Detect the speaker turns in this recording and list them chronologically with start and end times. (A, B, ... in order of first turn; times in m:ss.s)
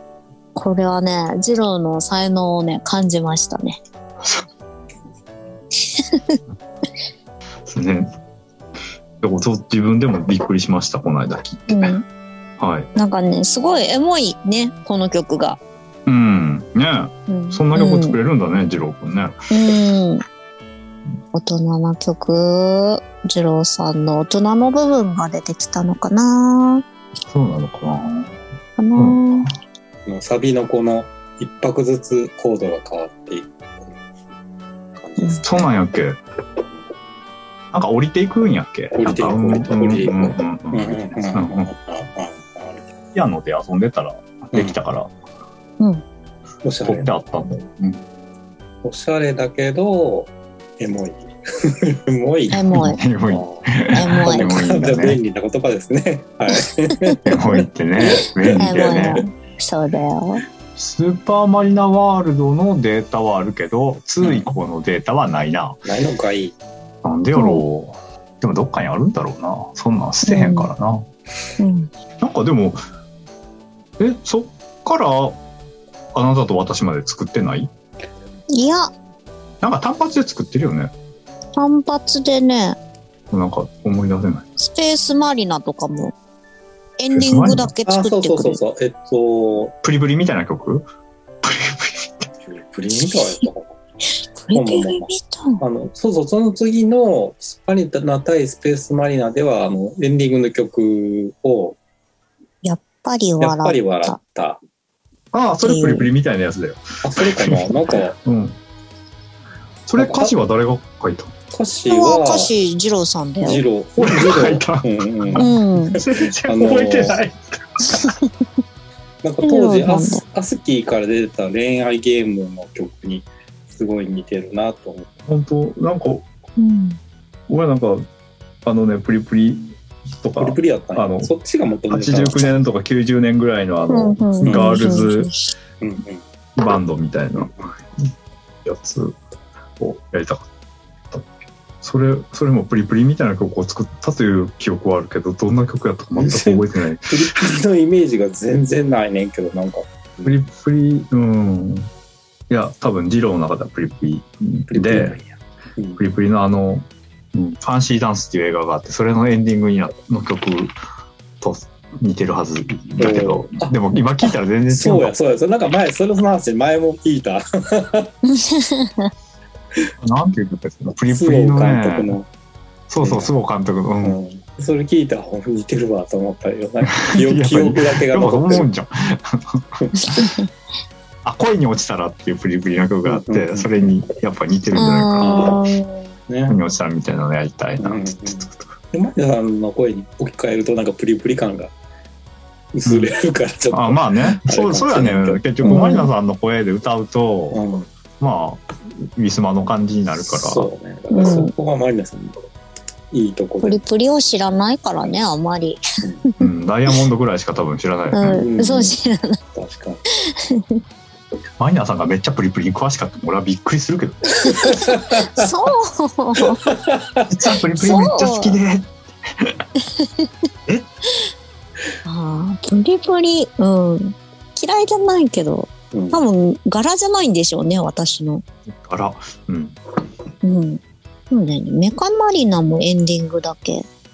0:00.6-0:03.8 A
0:06.0-0:06.4 A
0:07.7-0:08.1 B
0:09.2-0:11.9 B
0:11.7-0:12.0 A
0:12.6-0:12.9 B
0:12.9-0:15.6 A
0:16.1-0:19.5 B
0:17.3-0:18.2 A
0:19.5-0:20.2 A
0:21.3-0:26.8 A
0:27.3-0:28.3 B
0:28.8-0:29.5 A
0:29.0-0:29.5 B
0:30.0-0:34.0 C
0:34.9-0:35.6 C
0:35.4-0:36.2 B
0:37.7-0:41.7 B
0:38.9-0:42.9 C
0:43.1-0:45.1 B
0:46.6-0:47.1 C
0:46.8-0:48.0 B
0:48.8-0:52.7 C
0:52.5-0:53.0 A
0:52.7-0:55.2 B
0:53.3-0:57.3 C
0:53.9-0:54.5 A
0:57.2-0:59.2 B
0:58.1-0:59.2 C
0:58.6-1:00.4 A
1:00.8-1:05.8 B
1:04.2-1:04.5 C
1:05.8-1:06.6 C
1:07.0-1:11.0 B
1:07.3-1:07.6 A
1:10.2-1:10.7 A
1:11.6-1:11.9 A
1:12.2-1:12.8 B
1:14.0-1:15.4 B
1:16.1-1:17.7 B
1:18.5-1:18.9 A
1:19.6-1:20.9 B
1:21.6-1:22.8 A
1:23.3-1:24.4 B
1:24.6-1:26.1 A
1:27.0-1:28.6 A
1:27.1-1:27.7 B
1:27.8-1:29.7 C
1:29.8-1:30.9 B
1:31.4-1:32.3 B
1:32.4-1:33.8 C
1:34.4-1:35.6 A
1:34.5-1:41.8 C
1:42.6-1:44.2 A
1:43.4-1:44.6 C
1:45.3-1:48.6 B
1:45.6-1:46.1 A
1:47.0-1:48.1 C
1:49.9-1:51.3 B
1:50.0-1:50.3 C
1:51.5-1:52.5 C
1:51.9-1:53.6 A
1:53.4-1:57.2 C
1:54.0-1:58.1 B
1:55.4-1:56.0 A
1:59.2-2:05.1 C
1:59.4-2:00.2 A
2:05.3-2:06.2 B
2:06.6-2:07.0 A
2:07.5-2:08.0 B
2:08.6-2:11.3 B
2:10.4-2:12.6 C
2:11.9-2:15.3 B
2:13.9-2:15.5 A
2:14.4-2:15.0 C
2:15.8-2:16.2 C
2:16.6-2:18.1 B
2:18.6-2:19.2 B
2:19.8-2:20.4 B
2:21.8-2:27.3 B
2:26.1-2:30.4 C
2:30.2-2:31.9 B
2:32.5-2:35.2 B
2:34.7-2:36.0 C
2:36.0-2:40.7 B
2:41.4-2:45.1 B
2:43.0-2:43.7 C
2:44.7-2:48.1 C
2:48.3-2:49.1 A
2:50.0-2:52.1 B
2:51.0-2:52.3 C
2:52.9-2:54.2 B
2:53.0-2:53.3 C
2:54.0-2:58.7 C
2:56.9-3:00.2 B
3:00.1-3:00.4 A
3:01.2-3:05.5 B
3:03.0-3:03.7 C
3:04.7-3:06.1 A
3:05.2-3:05.6 C
3:06.3-3:06.6 C
3:06.5-3:08.8 B
3:07.8-3:11.7 C
3:12.7-3:15.4 C
3:12.9-3:13.1 B
3:13.7-3:17.6 B
3:15.6-3:16.1 A
3:17.5-3:17.9 C
3:18.2-3:20.7 B
3:20.3-3:22.4 C
3:21.1-3:21.5 A
3:23.1-3:23.8 C
3:23.6-3:25.8 A
3:26.4-3:28.4 B
3:28.1-3:29.4 A
3:28.3-3:28.9 C
3:29.6-3:30.0 C
3:30.1-3:30.8 A
3:31.6-3:34.7 B
3:34.4-3:35.5 C
3:35.2-3:36.6 A
3:36.4-3:37.5 C
3:37.3-3:39.6 B
3:37.8-3:38.6 A
3:40.0-3:40.3 A
3:42.0-3:48.4 A
3:45.9-3:46.2 C
3:48.7-3:49.8 B
3:50.4-3:53.8 A